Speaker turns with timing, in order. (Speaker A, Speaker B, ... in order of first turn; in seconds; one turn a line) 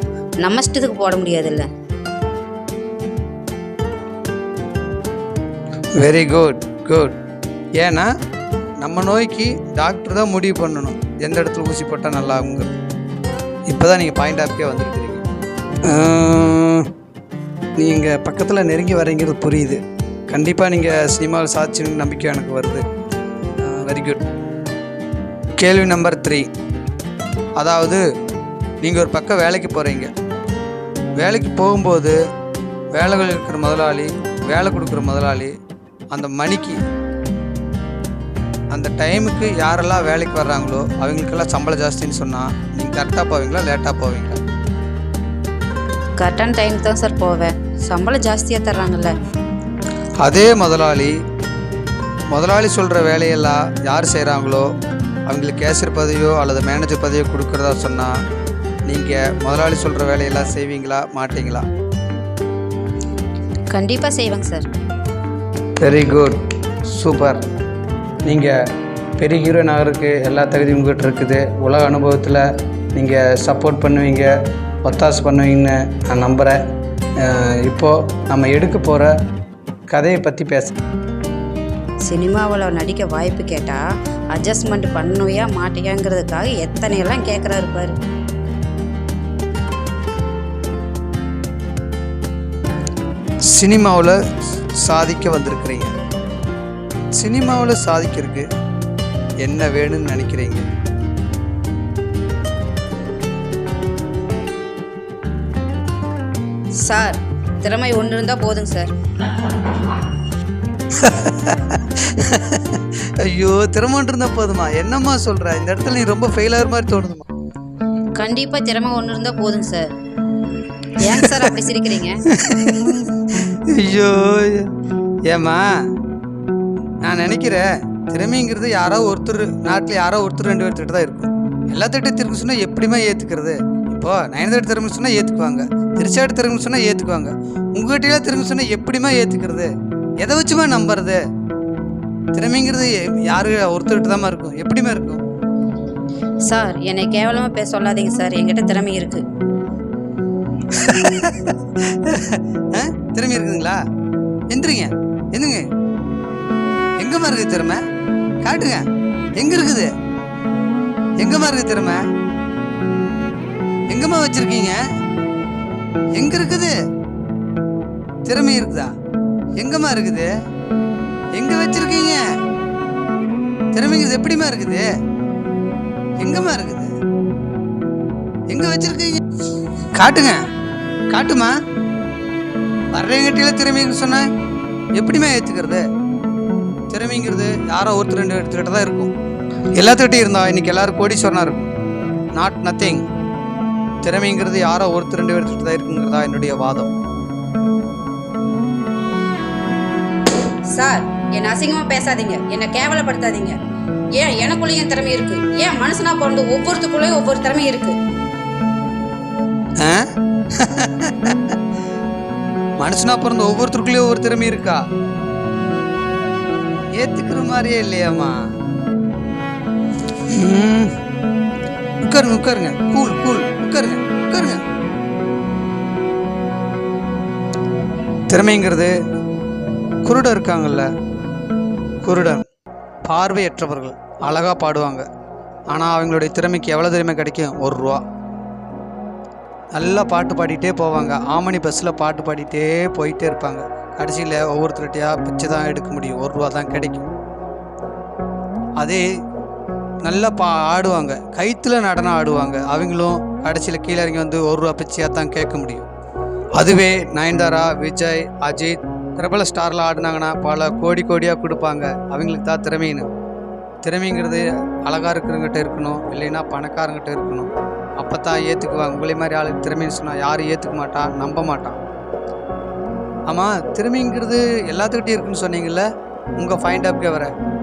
Speaker A: 0.4-1.7
Speaker B: 6.0-7.2
Speaker B: 7.8-8.1
Speaker B: 8.8-12.8
Speaker B: 13.7-15.2
Speaker B: 15.9-16.9
Speaker B: 17.8-22.8
Speaker B: 23.6-24.2
Speaker B: 25.6-26.5
Speaker B: 27.6-28.0
Speaker B: 28.8-30.1
Speaker B: 31.2-32.2
Speaker B: 33.0-35.5
Speaker B: 36.1-36.8
Speaker B: 38.7-44.4
Speaker A: 46.2-49.1
Speaker B: 50.2-51.1
Speaker B: 52.3-54.7
Speaker B: 55.3-58.1
Speaker B: 58.9-61.6
Speaker A: 63.7-64.7
Speaker B: 65.8-67.4
Speaker B: 68.3-68.5
Speaker B: 69.2-72.4
Speaker B: 73.0-74.3
Speaker B: 74.8-76.6
Speaker B: 77.2-79.1
Speaker B: 79.9-80.8
Speaker A: 82.1-83.8
Speaker A: 84.3-88.0
Speaker B: 93.5-94.2
Speaker B: 94.8-95.9
Speaker B: 97.2-98.5
Speaker B: 99.4-100.7
Speaker A: 106.8-108.9
Speaker B: 111.0-117.2
Speaker A: 118.2-119.9
Speaker A: 121.0-122.2
Speaker B: 122.4-124.7
Speaker B: 125.3-125.7
Speaker B: 127.0-141.2
Speaker B: 142.3-145.2
Speaker A: 146.5-149.2
Speaker B: 150.7-153.8
Speaker B: 154.5-155.7
Speaker B: 157.0-157.8
Speaker B: 158.4-158.8
Speaker B: 159.4-159.9
Speaker B: 161.2-162.0
Speaker B: 163.9-164.8
Speaker B: 166.2-166.8
Speaker B: 168.3-168.9
Speaker B: 169.6-170.3
Speaker B: 171.4-172.2
Speaker B: 173.7-174.9
Speaker B: 176.2-176.9
Speaker B: 178.5-179.2
Speaker B: 180.0-180.4
Speaker B: 181.1-181.5
Speaker B: 182.9-184.3
Speaker B: 185.0-185.8
Speaker B: 186.9-189.1
Speaker B: 189.8-191.7
Speaker B: 192.3-193.1
Speaker B: 194.0-196.9
Speaker A: 200.7-203.6
Speaker A: 204.2-208.0
Speaker B: 210.6-211.6
Speaker B: 212.8-214.8
Speaker B: 217.0-218.4
Speaker B: 220.3-220.9
Speaker B: 222.0-224.6
Speaker B: 228.3-228.9
Speaker B: 230.0-230.9
Speaker B: 232.0-232.4
Speaker B: 233.1-235.1
Speaker B: 235.7-238.0
Speaker B: 239.8-247.1
Speaker B: 248.8-249.0
Speaker B: 250.0-255.9
Speaker B: 256.6-263.1
Speaker B: 263.8-271.8
Speaker B: 273.3-275.9
Speaker B: 276.4-277.3